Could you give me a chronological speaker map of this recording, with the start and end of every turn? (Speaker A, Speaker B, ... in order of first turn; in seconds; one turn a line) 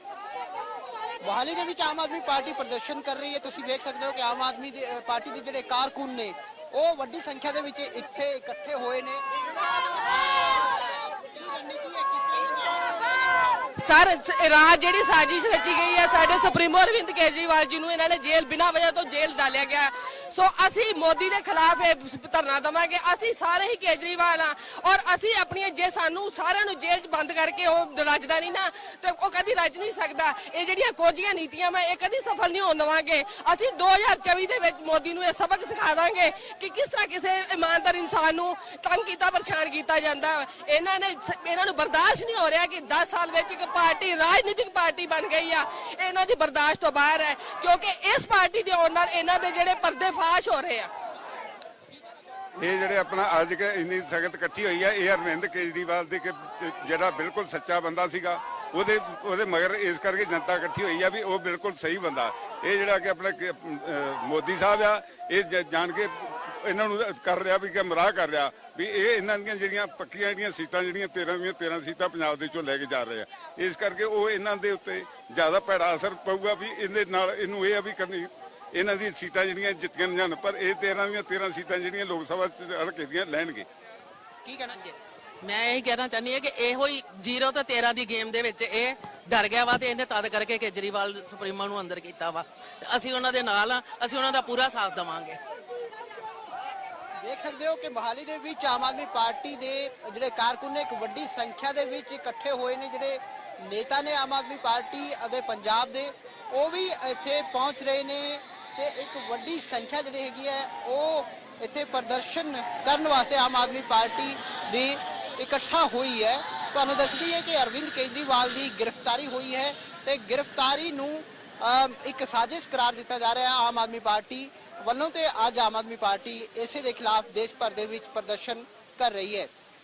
Speaker A: 1.2-13.7
Speaker B: 13.8-50.9
Speaker C: 52.6-83.7
Speaker A: 84.4-84.9
Speaker D: 85.4-95.4
Speaker A: 97.2-129.5